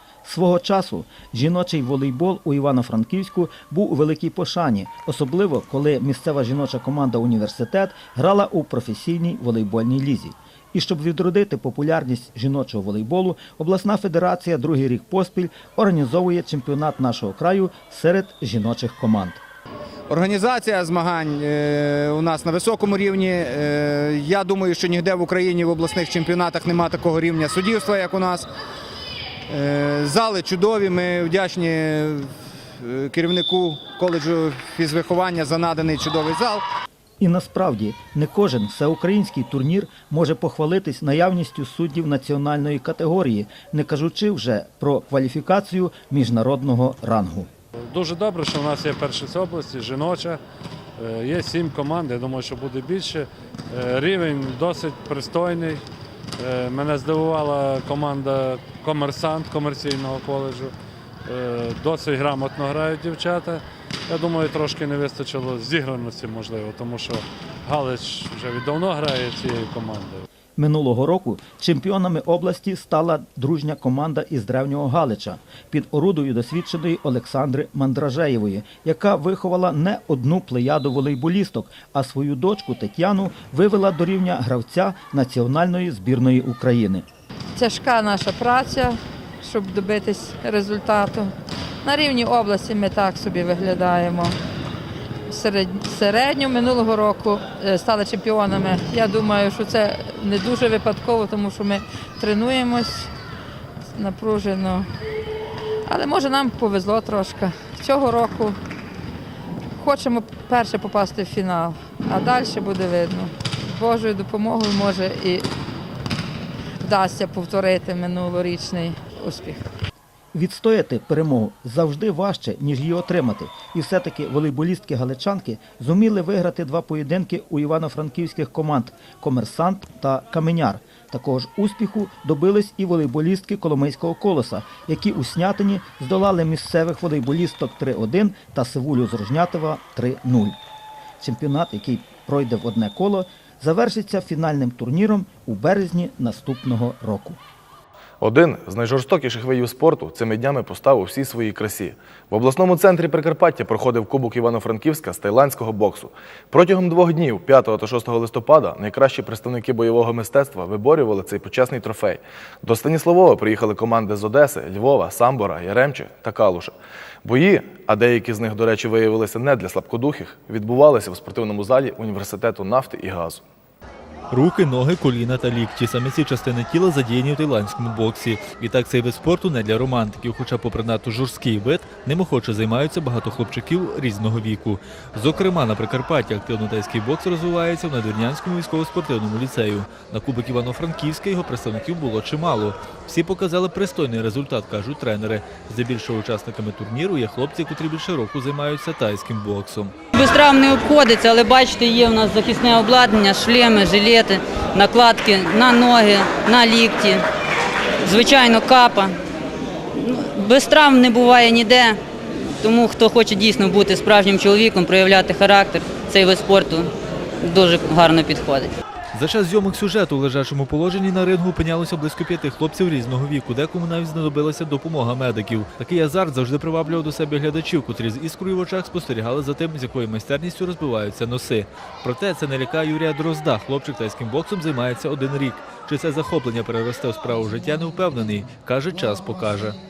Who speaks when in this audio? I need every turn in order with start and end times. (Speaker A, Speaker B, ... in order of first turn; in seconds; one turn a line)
Speaker A: 0.2-19.4
Speaker B: 20.1-28.5
Speaker B: 29.5-32.3
Speaker B: 32.8-36.6
Speaker A: 37.2-47.5
Speaker C: 47.9-50.4
Speaker C: 51.0-55.8
Speaker C: 56.4-60.7
Speaker C: 61.3-70.2
Speaker A: 70.6-87.0
Speaker D: 87.5-91.3
Speaker D: 91.8-94.3
Speaker D: 95.3-103.1
Speaker D: 103.9-104.9
Speaker D: 105.9-108.6
Speaker D: 109.8-115.4
Speaker D: 116.8-119.6
Speaker A: 120.3-140.6
Speaker A: 141.2-147.4
Speaker E: 148.2-166.7
Speaker E: 167.2-173.4
Speaker F: 174.3-199.9
Speaker G: 200.1-207.2
Speaker G: 208.0-209.1
Speaker G: 210.0-212.0
Speaker G: 212.6-216.9
Speaker G: 217.4-218.7
Speaker F: 219.1-239.8